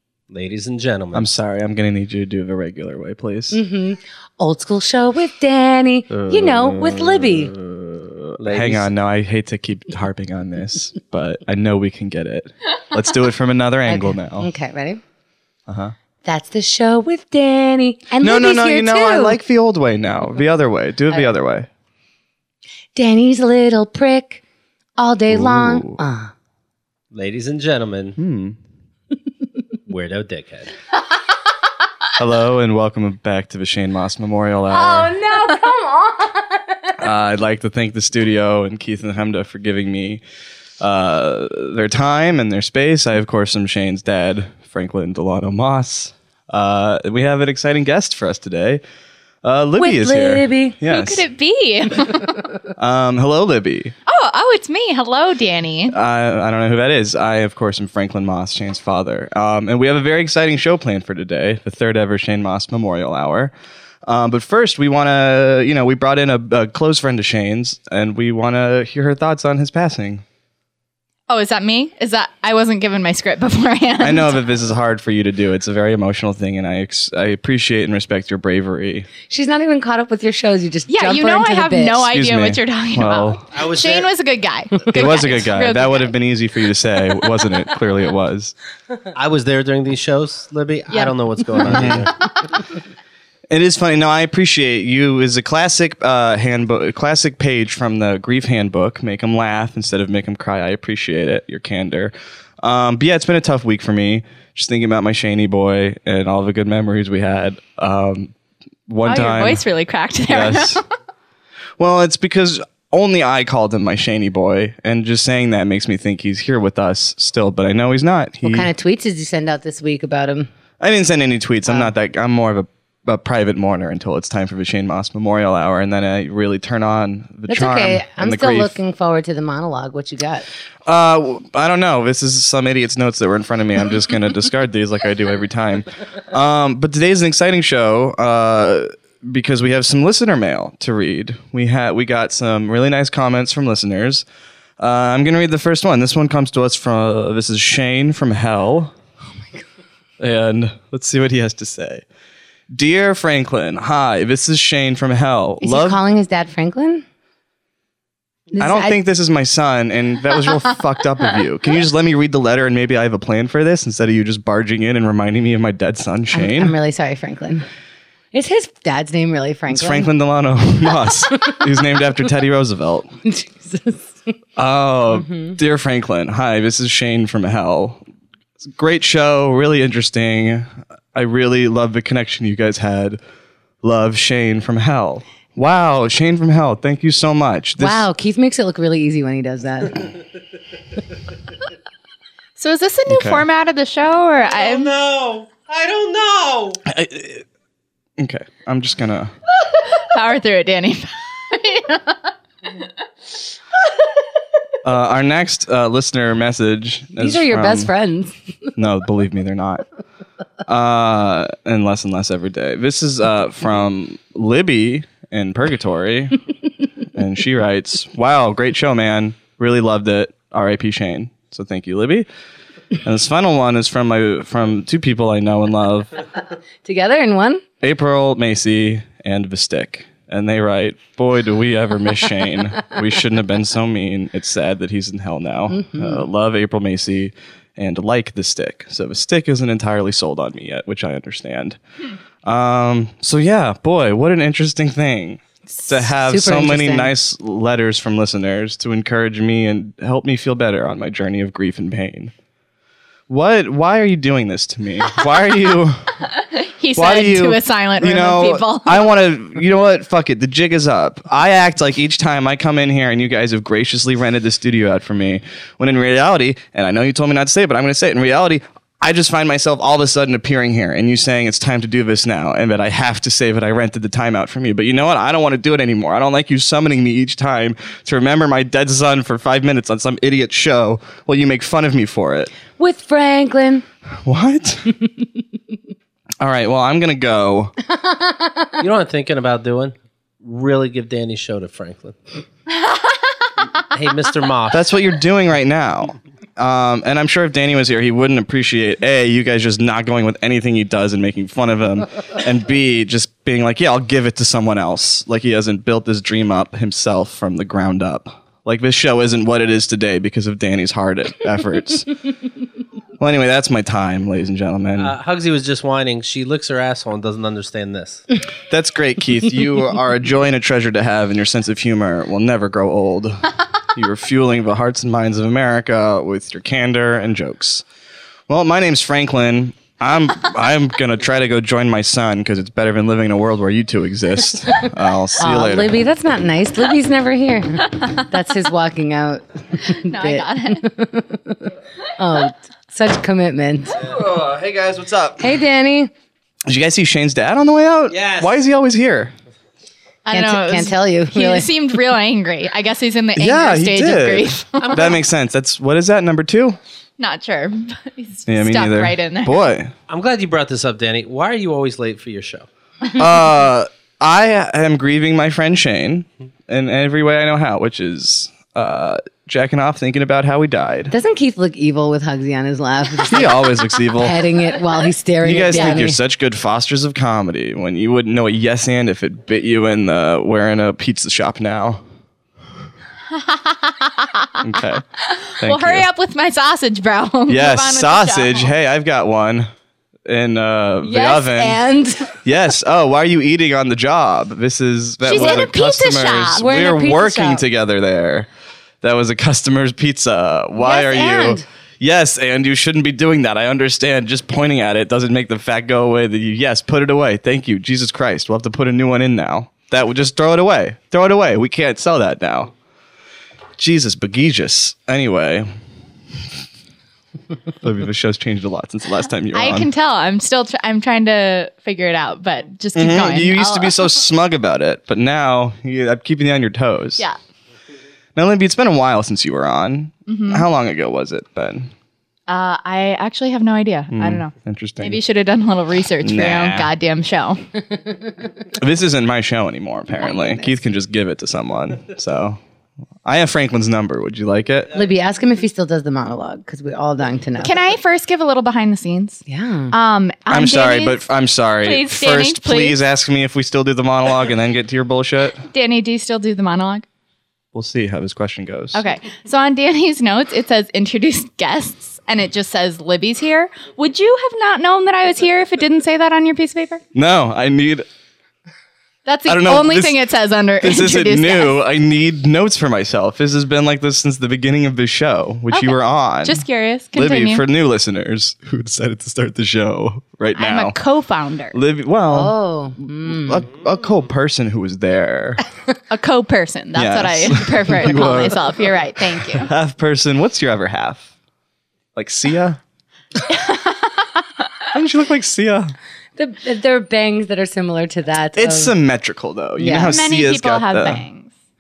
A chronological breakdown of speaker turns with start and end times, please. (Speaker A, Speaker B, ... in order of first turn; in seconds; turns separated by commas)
Speaker A: 0.3-1.3, Speaker B: 1.1-3.6, Speaker C: 3.5-7.5, Speaker A: 6.1-7.8, Speaker A: 8.4-8.9, Speaker B: 8.5-14.5, Speaker C: 13.9-15.0, Speaker B: 15.7-15.9, Speaker C: 16.2-19.4, Speaker B: 18.2-21.7, Speaker C: 22.9-24.4, Speaker C: 25.0-26.3, Speaker B: 25.3-26.0, Speaker A: 27.1-28.2, Speaker B: 28.2-28.6, Speaker A: 29.9-30.7, Speaker B: 32.2-35.2, Speaker C: 34.7-36.6, Speaker B: 37.0-40.2, Speaker B: 40.8-48.8, Speaker B: 49.4-51.2, Speaker C: 49.8-50.8, Speaker D: 50.9-52.4, Speaker B: 52.8-54.0, Speaker D: 54.1-56.0, Speaker B: 55.9-63.5, Speaker B: 64.1-70.2, Speaker D: 71.3-74.3, Speaker B: 74.0-79.1, Speaker C: 79.3-82.0, Speaker D: 80.9-86.1, Speaker B: 82.1-83.4, Speaker A: 83.5-84.1, Speaker B: 84.9-88.5, Speaker A: 89.1-92.1, Speaker B: 91.6-92.1, Speaker B: 93.5-108.3, Speaker B: 108.9-109.6, Speaker D: 109.0-110.8, Speaker B: 110.3-110.8, Speaker B: 111.8-118.7, Speaker C: 118.4-120.5, Speaker B: 120.8-128.8, Speaker C: 127.5-130.5, Speaker B: 130.9-144.2, Speaker B: 144.8-148.9, Speaker B: 150.2-152.1, Speaker B: 152.7-156.0, Speaker C: 155.6-157.1, Speaker C: 158.5-159.0, Speaker B: 158.6-166.8, Speaker C: 166.3-167.7, Speaker C: 168.3-170.1, Speaker B: 169.7-173.1, Speaker C: 173.2-174.2, Speaker B: 174.6-178.0, Speaker C: 175.2-175.6, Speaker B: 178.7-183.2, Speaker B: 183.8-188.1, Speaker C: 187.8-190.2, Speaker D: 192.6-194.9, Speaker B: 193.1-193.4, Speaker A: 194.5-196.8, Speaker B: 196.9-197.4, Speaker B: 198.2-199.3, Speaker D: 199.9-202.2, Speaker B: 204.8-207.9, Speaker C: 207.2-208.4, Speaker B: 208.8-209.8, Speaker B: 210.7-216.4, Speaker B: 217.1-222.3, Speaker B: 223.0-226.1, Speaker C: 226.8-227.6, Speaker B: 227.8-241.8, Speaker C: 235.8-236.2, Speaker B: 242.4-252.3, Speaker C: 246.1-247.1, Speaker B: 253.3-256.1, Speaker D: 256.4-259.1, Speaker B: 256.9-282.5, Speaker C: 282.8-283.8, Speaker B: 284.2-284.9, Speaker B: 286.4-287.7, Speaker C: 288.0-288.7, Speaker A: 288.8-292.2, Speaker A: 293.8-294.8, Speaker B: 294.7-312.1, Speaker B: 313.2-315.1, Speaker A: 315.0-318.2, Speaker B: 318.7-327.8, Speaker B: 328.5-336.0, Speaker C: 335.4-344.0, Speaker D: 339.9-340.9, Speaker B: 344.0-345.6, Speaker C: 345.4-346.1, Speaker B: 346.7-349.3, Speaker A: 348.1-348.5, Speaker D: 350.2-355.1, Speaker C: 350.3-351.7, Speaker B: 353.4-356.8, Speaker A: 354.8-355.1, Speaker D: 357.2-359.6, Speaker B: 358.5-359.9, Speaker A: 360.1-362.7, Speaker B: 363.1-371.1, Speaker C: 371.1-376.2, Speaker B: 373.2-374.4, Speaker B: 375.4-382.0, Speaker D: 375.7-376.0, Speaker D: 383.3-384.6, Speaker B: 384.6-385.0, Speaker D: 385.3-388.7, Speaker B: 385.6-386.1, Speaker B: 387.5-389.7, Speaker B: 390.2-391.8, Speaker C: 391.0-392.3, Speaker B: 392.4-398.5, Speaker D: 395.2-396.6, Speaker C: 396.5-397.6, Speaker B: 399.0-412.7, Speaker C: 400.8-401.6, Speaker B: 413.8-415.7, Speaker B: 417.8-419.9, Speaker D: 419.5-424.1, Speaker B: 422.9-427.2, Speaker B: 428.4-431.9, Speaker D: 430.3-430.6, Speaker D: 432.5-437.6, Speaker B: 434.1-435.2, Speaker B: 436.2-436.9, Speaker B: 438.7-442.6, Speaker B: 443.2-444.9, Speaker C: 444.9-447.8, Speaker D: 447.6-451.2, Speaker C: 449.5-449.9, Speaker B: 450.5-455.6, Speaker D: 451.8-453.0, Speaker D: 455.7-457.0, Speaker B: 457.7-459.0, Speaker D: 458.9-467.0, Speaker B: 467.1-468.1, Speaker D: 469.2-471.8, Speaker B: 469.5-470.1, Speaker B: 470.8-476.6, Speaker D: 475.7-477.6, Speaker B: 477.1-481.0, Speaker D: 480.6-481.8, Speaker B: 481.7-482.5, Speaker C: 482.3-483.7, Speaker B: 483.2-485.6, Speaker D: 486.1-489.7, Speaker B: 486.9-491.3, Speaker B: 492.1-492.8, Speaker D: 493.5-494.2, Speaker B: 494.9-495.9, Speaker C: 496.4-498.9, Speaker B: 498.6-501.2, Speaker C: 499.8-500.2, Speaker D: 500.0-501.5